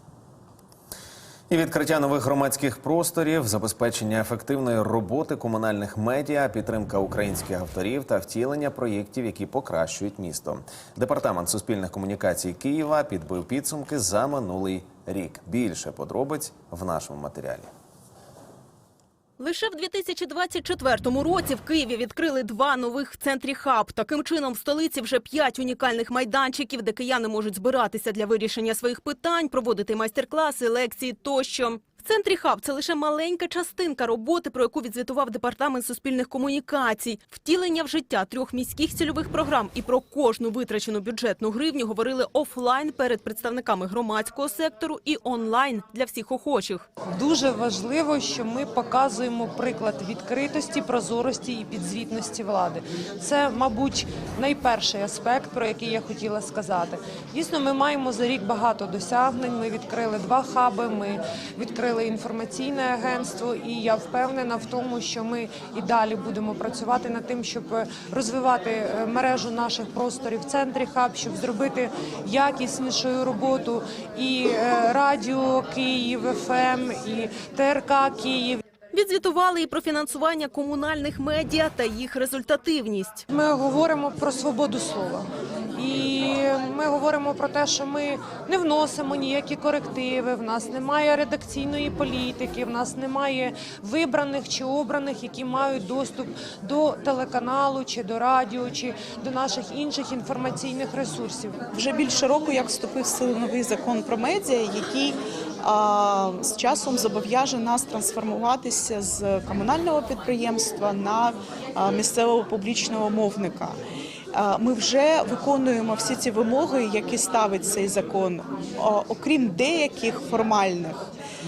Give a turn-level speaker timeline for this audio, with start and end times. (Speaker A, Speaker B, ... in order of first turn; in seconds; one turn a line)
Speaker A: 1.5-17.7
Speaker B: 19.4-46.9
Speaker C: 47.1-78.6
Speaker B: 78.9-83.2
Speaker C: 83.3-101.6
Speaker D: 101.7-113.8
Speaker D: 114.3-121.0